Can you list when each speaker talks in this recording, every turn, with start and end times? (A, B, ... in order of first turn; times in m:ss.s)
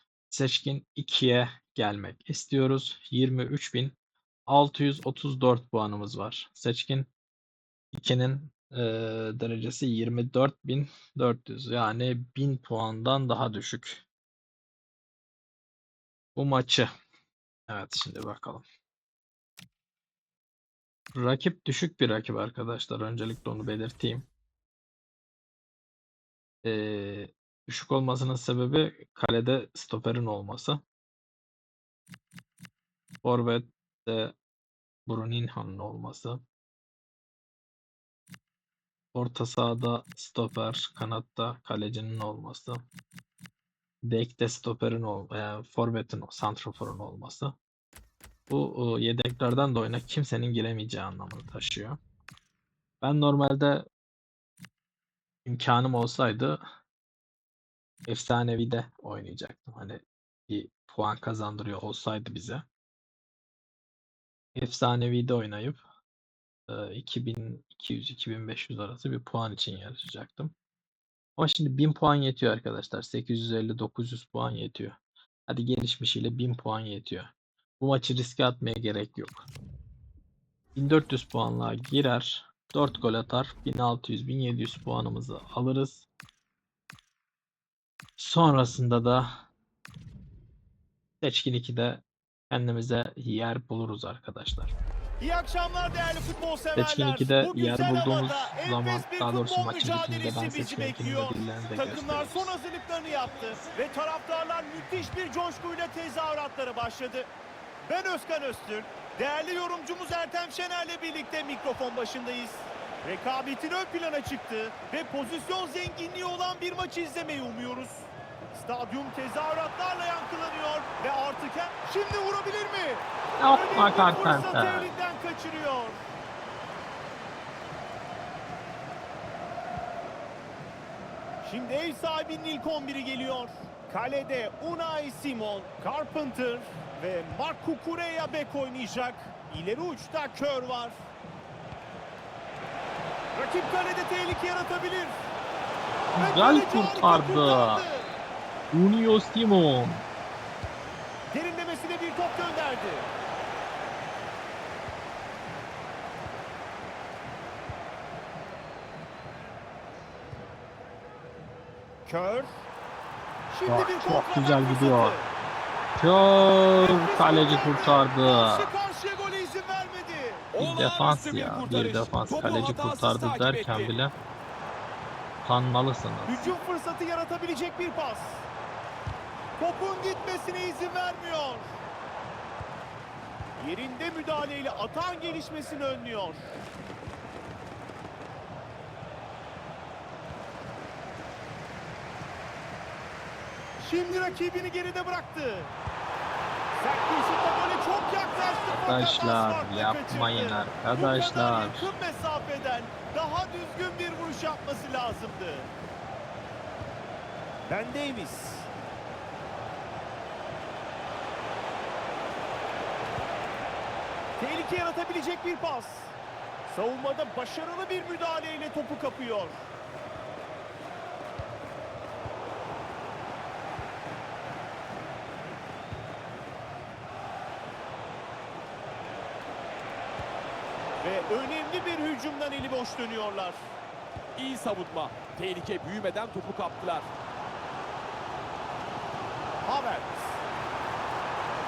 0:00.3-0:04.0 A
0:04.5-0:07.1 A
0:07.9-0:14.0 A
0:16.3-0:16.9 A
0:17.7-0:18.6 A
0:21.1-0:24.3 A
0:26.6-0:30.8 A
0:33.2-0:34.3 A
0:35.0-0:36.4 A
0:39.1-0:42.8 A
0:44.0-0:47.6 A
0:48.5-0:52.0 A
0:53.0-0:53.9 A
0:55.4-0:56.6 A
0:58.1-1:02.6 A
1:04.6-1:05.8 A
1:06.7-1:10.5 A
1:11.4-1:15.0 A
1:15.5-1:19.5 A
1:20.8-1:26.0 A
1:28.2-1:29.5 A
1:31.2-1:34.7 A
1:35.2-1:47.3 B
1:36.8-1:42.6 A
1:47.8-2:06.0 B
2:03.4-2:04.9 A
2:11.4-2:21.0 B
2:23.3-2:25.2 B
2:26.1-2:27.8 A
2:26.2-2:28.1 B
2:28.7-2:30.0 A
2:31.3-2:33.1 B
2:42.1-2:42.6 B
2:43.5-2:45.3 B
2:43.6-2:45.2 A
2:46.0-2:48.7 A
2:46.8-2:50.5 B
2:50.5-2:53.9 C
2:50.6-2:54.1 A
2:55.4-2:56.6 A
2:56.2-2:58.5 B
2:59.6-3:01.8 B
3:03.6-3:06.6 B
3:13.8-3:15.7 B
3:16.8-3:25.7 B
3:18.7-3:21.9 A
3:27.7-3:28.7 B
3:34.4-3:39.6 B
3:51.0-3:53.6 B
3:54.4-3:57.1 C
3:59.6-4:00.4 B